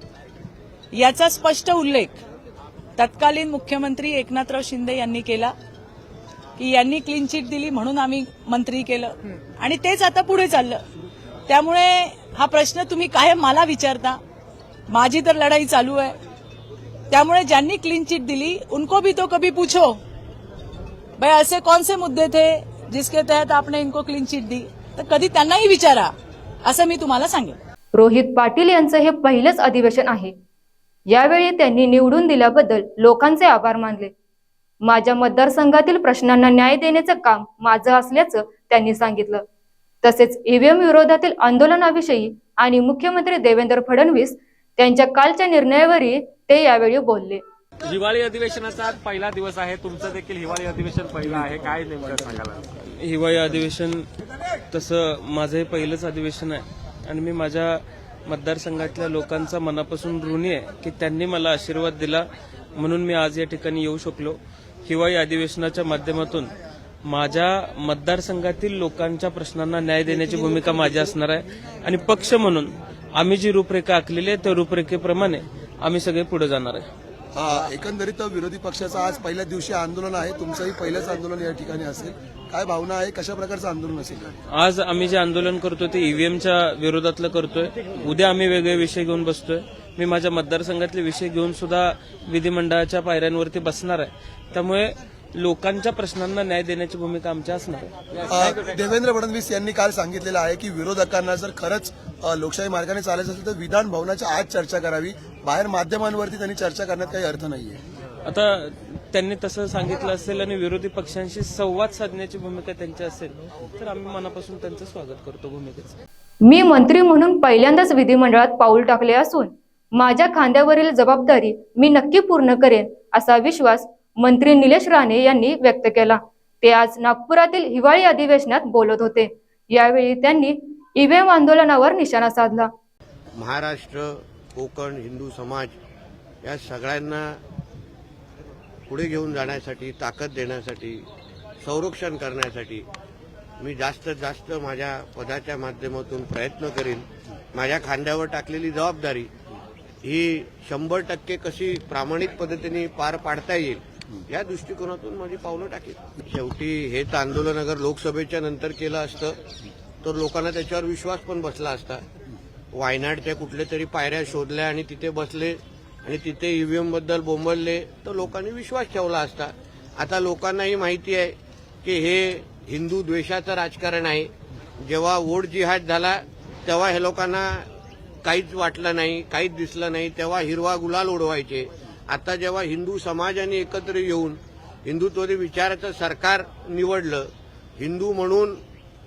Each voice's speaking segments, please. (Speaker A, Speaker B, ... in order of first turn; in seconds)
Speaker A: 0.9-2.2, 3.0-5.5, 6.6-10.8, 11.5-14.2, 14.9-16.2, 17.1-20.0, 21.2-26.1, 26.7-27.6
Speaker B: 28.0-30.3, 31.1-34.1, 34.8-39.4, 40.0-47.4, 116.5-132.7
Speaker C: 47.8-52.7
Speaker D: 53.0-54.0, 54.7-62.2, 62.8-66.5, 67.1-76.8, 84.5-97.9, 108.3-116.0
Speaker E: 77.3-84.3, 98.3-107.8
Speaker F: 133.4-135.7, 136.4-137.4, 138.9-141.1, 141.6-142.9, 143.6-149.3, 150.0-159.4, 160.0-162.0, 162.7-174.3, 174.8-177.7, 178.2-188.6